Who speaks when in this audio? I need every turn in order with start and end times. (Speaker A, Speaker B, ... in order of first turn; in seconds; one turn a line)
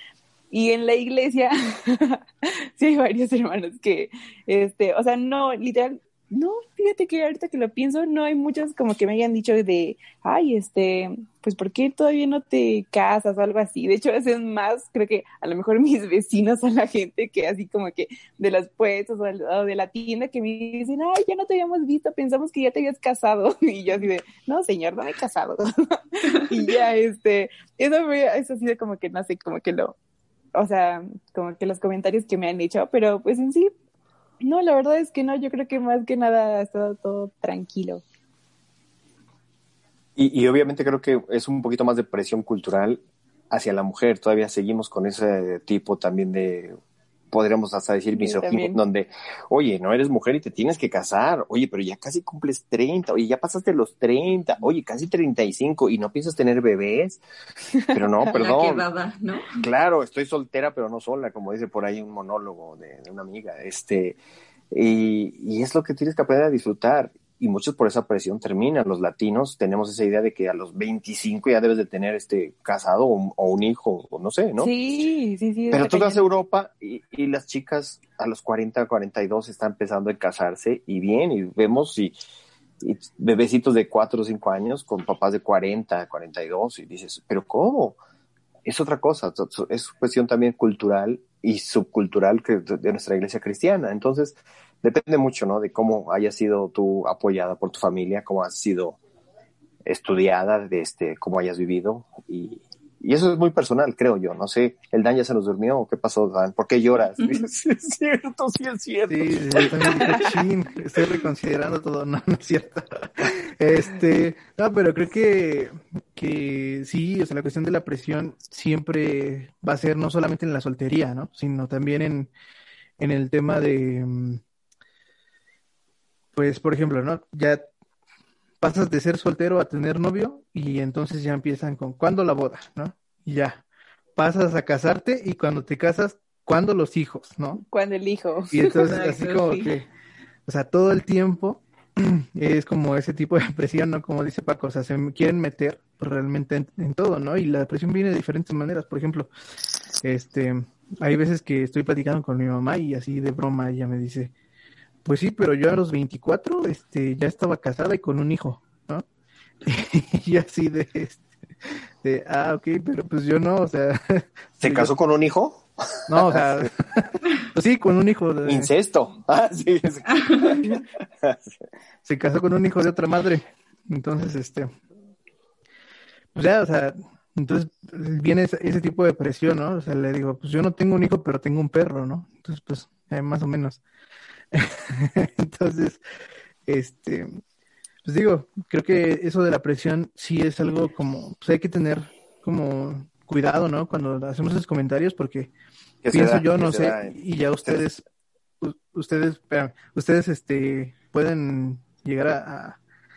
Speaker A: 0.5-29.9
Speaker A: 30.6-33.7
Speaker A: 34.4-38.0
Speaker B: 40.2-46.8
Speaker B: 47.3-57.2
Speaker A: 48.1-48.8
Speaker B: 57.9-58.9
Speaker C: 58.3-59.5
Speaker B: 59.5-64.2
Speaker B: 64.7-74.7
Speaker A: 74.6-76.2
Speaker B: 75.7-82.1
Speaker B: 82.8-88.0
Speaker B: 88.7-99.0
Speaker B: 99.8-110.2
Speaker D: 109.1-122.3
Speaker D: 123.0-124.4
Speaker D: 126.3-127.6
Speaker D: 128.6-133.6
Speaker D: 134.2-137.6
Speaker A: 137.6-138.9
Speaker D: 138.5-139.9
Speaker C: 138.8-139.7
Speaker D: 140.5-149.3
Speaker D: 150.0-154.3
Speaker D: 155.1-159.1
Speaker D: 159.7-161.2
Speaker D: 162.0-164.9
Speaker B: 164.6-166.7
Speaker D: 166.1-168.7
Speaker B: 168.4-171.5
Speaker D: 172.1-174.7
Speaker D: 176.3-183.8
Speaker D: 184.5-186.0
Speaker D: 186.7-187.4
Speaker D: 188.1-195.5
Speaker B: 196.0-197.2
Speaker D: 196.1-198.0
Speaker D: 198.6-202.8